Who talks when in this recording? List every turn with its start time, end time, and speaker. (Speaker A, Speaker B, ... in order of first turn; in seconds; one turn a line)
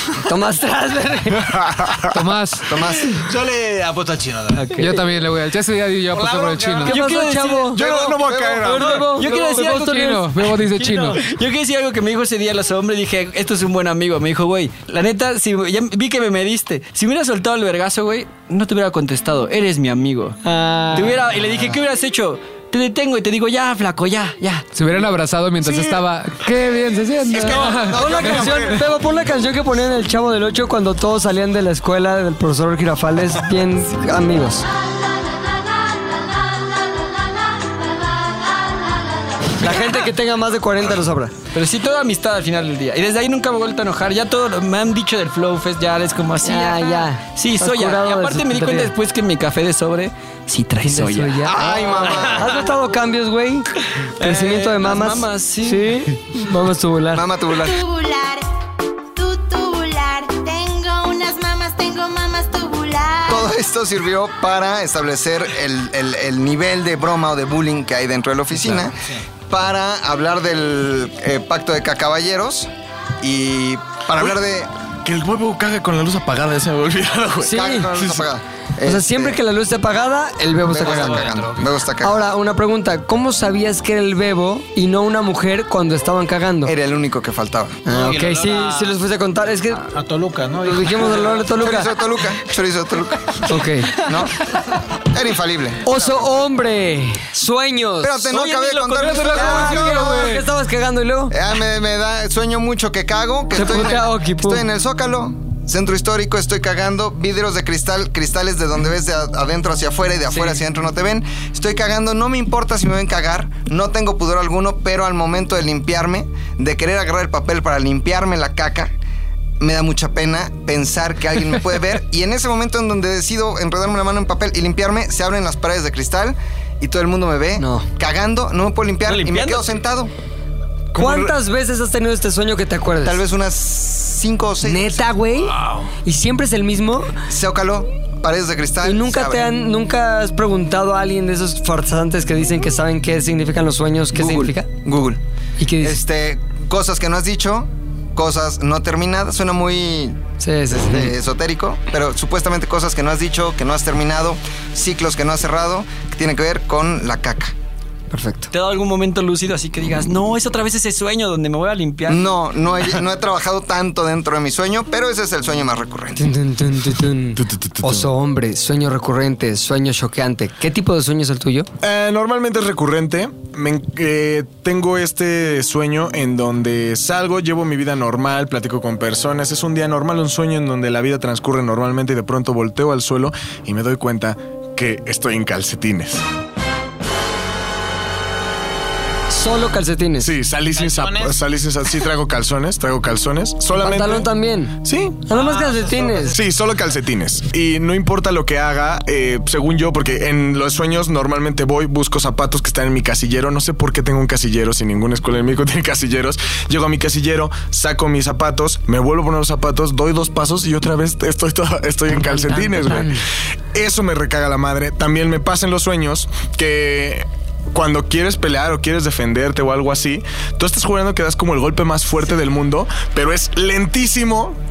Speaker A: 0.2-1.6
Speaker B: 1.5-2.1
Speaker C: 2.1-2.7
Speaker D: 2.7-3.2
Speaker E: 3.2-4.8
Speaker A: 4.6-5.0
Speaker C: 4.7-7.0
Speaker E: 6.1-7.9
Speaker F: 6.8-7.9
Speaker A: 6.8-10.2
Speaker B: 7.7-9.0
Speaker F: 8.7-10.3
Speaker C: 9.3-11.2
Speaker A: 10.7-11.2
Speaker F: 11.0-20.4
Speaker A: 20.4-21.2
Speaker F: 20.9-24.7
Speaker C: 24.7-28.6
Speaker B: 25.6-26.0
Speaker B: 27.2-28.9
Speaker A: 27.8-34.6
Speaker G: 35.0-39.3
Speaker A: 39.6-41.3
Speaker F: 41.5-51.5
Speaker A: 46.4-48.9
Speaker A: 50.8-53.7
Speaker D: 51.4-52.5
Speaker F: 52.0-52.3
Speaker F: 54.2-56.0
Speaker A: 54.2-57.2
Speaker D: 57.1-57.8
Speaker G: 57.5-58.4
Speaker G: 59.1-63.5
Speaker D: 63.3-69.0
Speaker D: 69.5-72.7
Speaker D: 73.2-74.7
Speaker B: 75.0-78.2
Speaker A: 77.4-77.9
Speaker D: 77.5-79.4
Speaker A: 78.8-81.3
Speaker D: 80.7-82.2
Speaker E: 80.7-81.7
Speaker A: 82.0-86.7
Speaker D: 86.6-87.8
Speaker A: 87.8-89.9
Speaker E: 87.9-89.0
Speaker E: 89.9-91.5
Speaker A: 90.6-91.9
Speaker D: 91.5-94.3
Speaker A: 93.5-94.0
Speaker D: 95.0-96.3
Speaker A: 95.8-98.3
Speaker D: 98.0-100.3
Speaker F: 98.2-100.4
Speaker A: 99.3-101.3
Speaker D: 101.3-118.9
Speaker A: 103.5-104.6
Speaker D: 119.6-130.1
Speaker A: 127.6-127.8
Speaker F: 129.1-129.7
Speaker A: 130.9-133.2
Speaker B: 130.9-131.3
Speaker D: 133.0-135.0
Speaker A: 134.6-137.1
Speaker D: 137.3-139.5
Speaker A: 138.8-144.7
Speaker D: 144.1-145.2
Speaker A: 145.6-146.0
Speaker D: 145.8-150.2
Speaker A: 150.4-151.1
Speaker D: 150.7-157.5
Speaker A: 158.1-158.5
Speaker F: 158.5-162.3
Speaker D: 162.1-166.2
Speaker A: 166.2-171.7
Speaker B: 167.4-168.1
Speaker B: 171.8-186.2
Speaker A: 189.3-190.3
Speaker B: 190.2-194.3
Speaker E: 190.8-191.4
Speaker A: 193.7-196.3
Speaker B: 194.8-195.2
Speaker E: 195.3-196.4
Speaker B: 196.3-213.2
Speaker A: 212.6-213.2
Speaker B: 213.7-224.6